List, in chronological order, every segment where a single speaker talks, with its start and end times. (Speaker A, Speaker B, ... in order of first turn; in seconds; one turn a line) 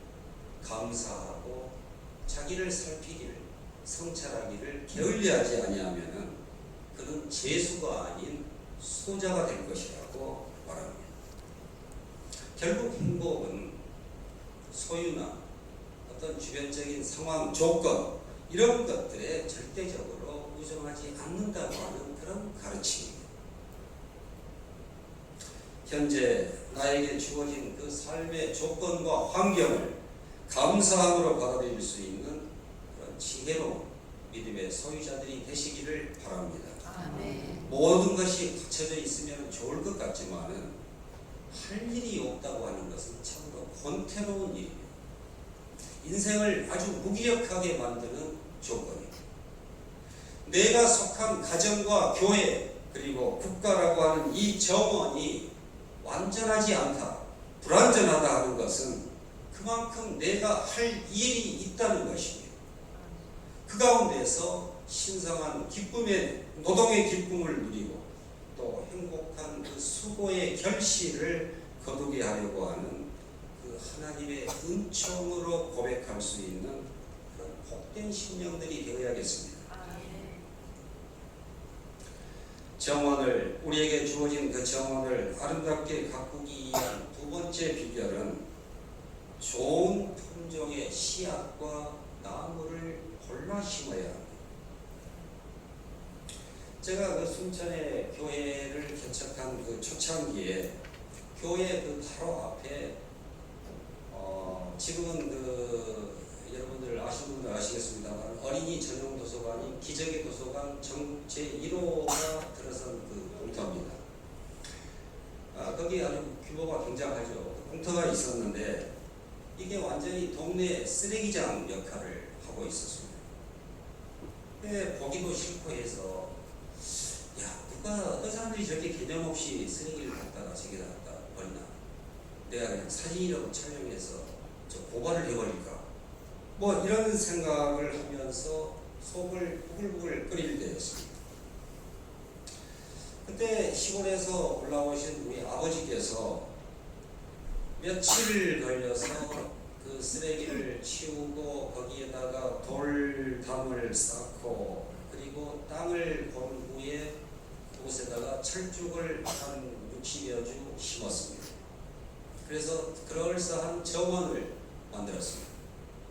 Speaker A: 0.6-1.7
Speaker A: 2.3-6.3
Speaker A: 6.9-11.1
Speaker A: 12.6-13.8
Speaker A: 14.7-15.4
Speaker A: 16.1-23.2
Speaker A: 25.9-36.8
Speaker B: 36.8-37.7
Speaker A: 37.6-40.7
Speaker A: 41.5-44.9
Speaker A: 46.0-49.1
Speaker A: 50.4-55.5
Speaker A: 56.0-62.5
Speaker B: 62.9-63.3
Speaker A: 63.7-79.7
Speaker B: 79.7-80.5
Speaker A: 82.8-88.4
Speaker A: 89.4-94.4
Speaker A: 96.8-100.7
Speaker A: 101.3-103.0
Speaker A: 104.1-114.0
Speaker A: 115.5-118.9
Speaker A: 119.5-123.2
Speaker A: 124.6-126.3
Speaker A: 126.9-131.7
Speaker A: 132.4-135.8
Speaker A: 136.6-141.1
Speaker A: 143.2-146.5
Speaker A: 147.8-157.1
Speaker A: 157.8-161.5
Speaker A: 162.4-165.5